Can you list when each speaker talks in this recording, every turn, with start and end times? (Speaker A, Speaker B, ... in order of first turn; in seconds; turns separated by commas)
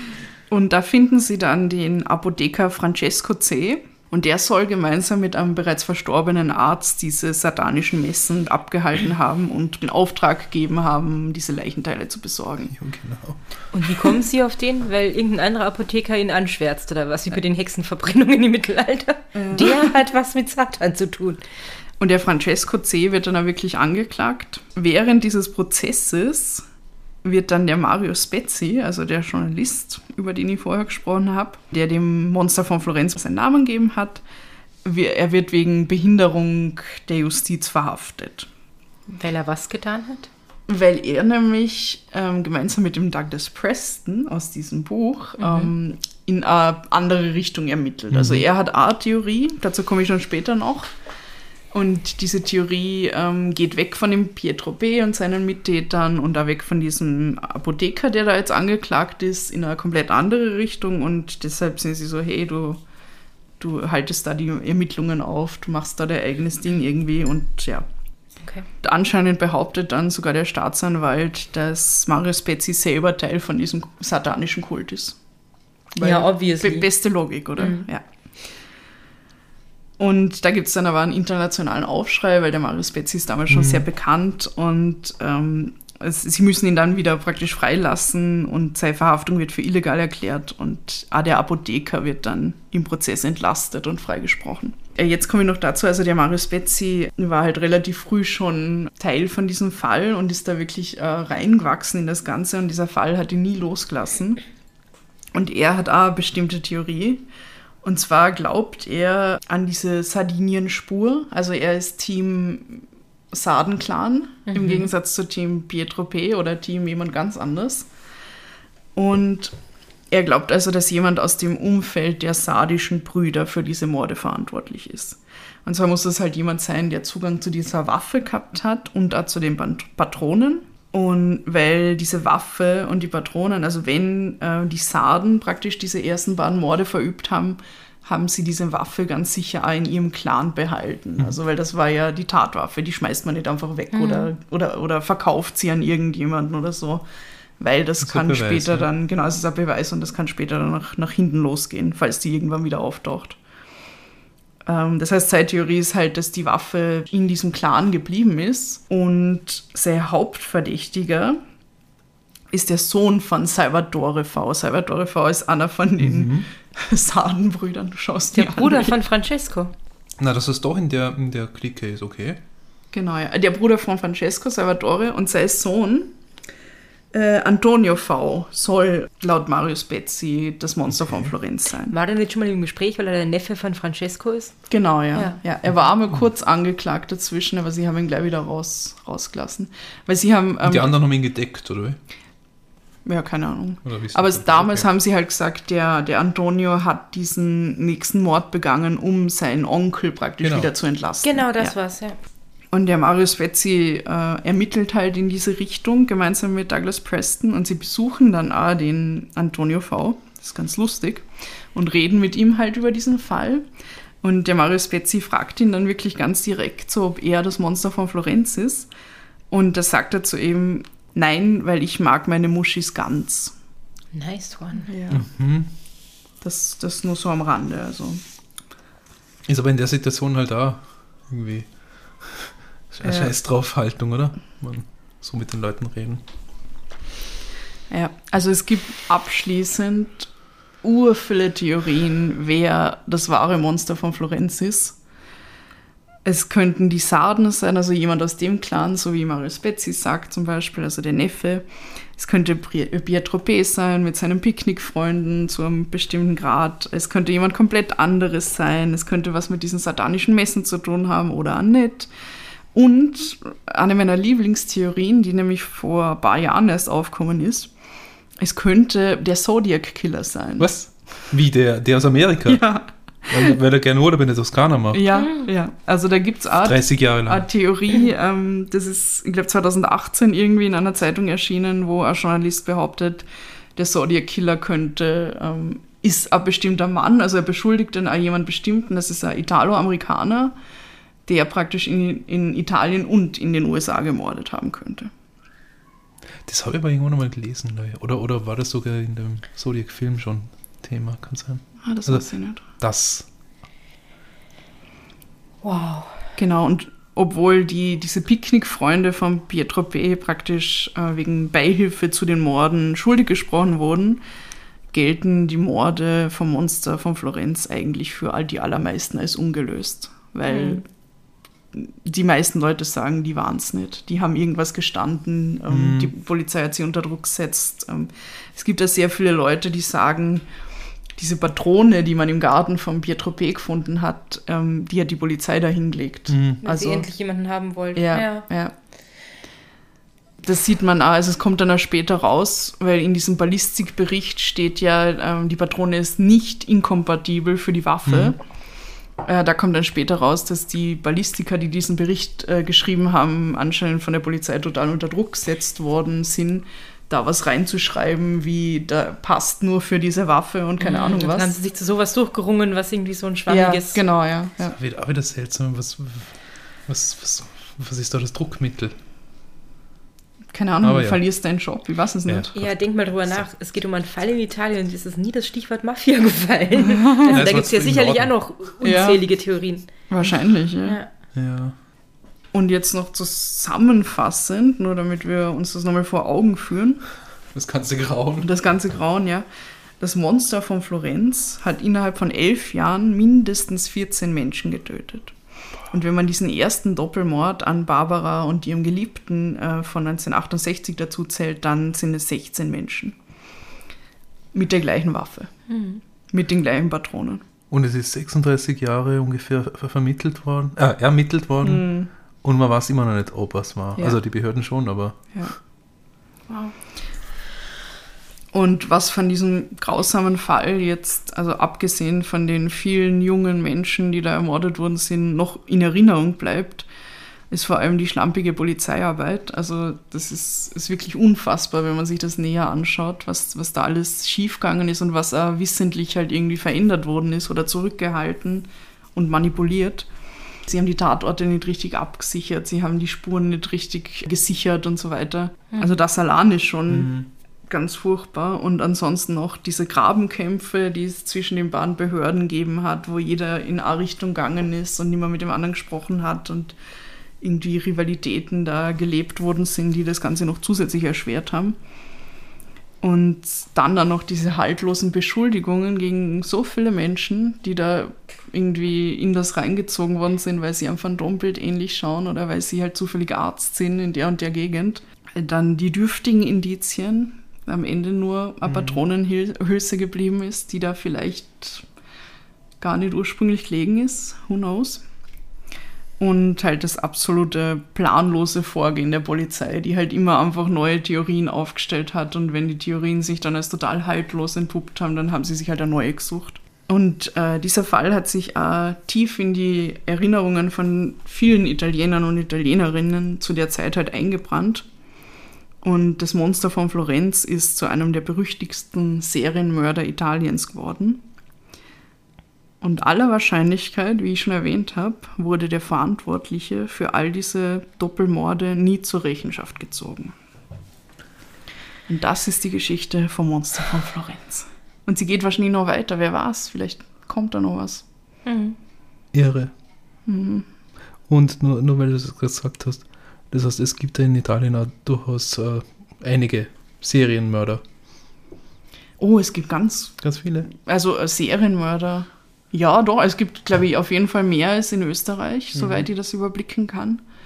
Speaker A: 0.5-12.8, Speaker B: 12.7-13.6, Speaker C: 13.7-21.4, Speaker A: 19.4-19.9, Speaker A: 22.0-26.7, Speaker A: 27.2-34.2, Speaker A: 34.9-38.5, Speaker C: 39.1-40.3, Speaker A: 40.7-50.9, Speaker C: 45.4-45.7, Speaker B: 48.1-48.4, Speaker A: 51.7-62.8, Speaker A: 63.6-67.9, Speaker A: 68.8-75.2, Speaker A: 76.0-78.0, Speaker C: 76.0-76.9, Speaker C: 77.6-77.9, Speaker A: 80.0-104.4, Speaker B: 83.5-83.8, Speaker A: 105.3-107.2, Speaker A: 107.8-117.9, Speaker C: 114.5-114.9, Speaker A: 119.0-119.5, Speaker A: 120.1-147.1, Speaker C: 143.9-144.3, Speaker A: 147.6-153.4, Speaker B: 148.0-148.9, Speaker A: 154.7-161.4, Speaker A: 162.5-168.9, Speaker B: 166.0-166.5, Speaker C: 168.3-169.7, Speaker B: 170.2-172.4, Speaker A: 172.9-176.1, Speaker A: 177.1-181.9, Speaker B: 180.9-181.3, Speaker C: 181.9-185.4, Speaker A: 184.7-190.9, Speaker B: 190.6-192.0, Speaker A: 193.1-201.7, Speaker B: 193.8-194.9, Speaker B: 200.4-200.7, Speaker C: 201.2-202.2, Speaker A: 202.7-213.6, Speaker A: 214.2-218.9, Speaker A: 219.5-223.5, Speaker C: 224.1-224.9, Speaker A: 224.8-225.3, Speaker B: 225.1-225.7, Speaker A: 226.4-228.2, Speaker B: 229.5-236.2, Speaker A: 233.0-233.3, Speaker A: 237.9-240.3, Speaker A: 240.8-245.0, Speaker A: 246.2-251.7, Speaker A: 252.2-262.1, Speaker A: 262.7-267.7, Speaker A: 268.4-270.7, Speaker B: 270.6-272.6, Speaker A: 272.5-273.6, Speaker B: 273.3-275.1, Speaker A: 274.9-290.5, Speaker C: 275.1-275.5, Speaker B: 276.6-277.5, Speaker A: 291.3-295.1, Speaker B: 296.4-303.3, Speaker A: 301.8-302.6, Speaker C: 305.6-306.2, Speaker A: 306.4-314.2, Speaker A: 314.9-320.8, Speaker C: 320.5-320.8, Speaker A: 321.7-330.4, Speaker B: 325.7-326.1, Speaker A: 331.2-337.1, Speaker B: 336.3-336.6, Speaker C: 336.6-338.5, Speaker A: 337.9-338.7, Speaker A: 340.4-348.4, Speaker B: 348.1-348.3, Speaker A: 349.2-361.5, Speaker C: 360.8-364.0, Speaker A: 363.5-364.8, Speaker B: 364.7-368.9, Speaker A: 370.5-372.5, Speaker B: 370.8-371.2, Speaker B: 372.3-373.5, Speaker C: 372.6-380.0, Speaker A: 376.8-377.4, Speaker B: 377.3-378.3, Speaker A: 378.8-379.2, Speaker A: 380.1-381.0, Speaker C: 380.8-381.1, Speaker B: 381.3-381.8, Speaker A: 382.5-387.0, Speaker B: 387.5-388.5, Speaker A: 388.4-389.5, Speaker A: 390.0-395.3, Speaker A: 395.9-403.2, Speaker A: 404.5-405.5, Speaker C: 405.7-406.0, Speaker A: 406.3-407.4, Speaker B: 407.7-415.5, Speaker A: 411.6-412.1, Speaker C: 416.5-416.7, Speaker A: 418.5-426.9, Speaker A: 427.5-440.1, Speaker A: 440.7-456.8, Speaker C: 445.7-446.0, Speaker B: 446.9-447.3, Speaker A: 457.4-461.8, Speaker A: 463.0-481.9, Speaker B: 478.7-479.0, Speaker A: 482.8-485.0, Speaker A: 486.2-504.9, Speaker A: 505.8-511.2, Speaker A: 512.8-520.3, Speaker A: 522.1-528.0, Speaker C: 528.5-528.8, Speaker B: 529.3-529.7, Speaker A: 530.3-530.7, Speaker B: 531.3-537.8, Speaker A: 539.2-547.2, Speaker B: 540.2-540.7, Speaker B: 545.8-546.0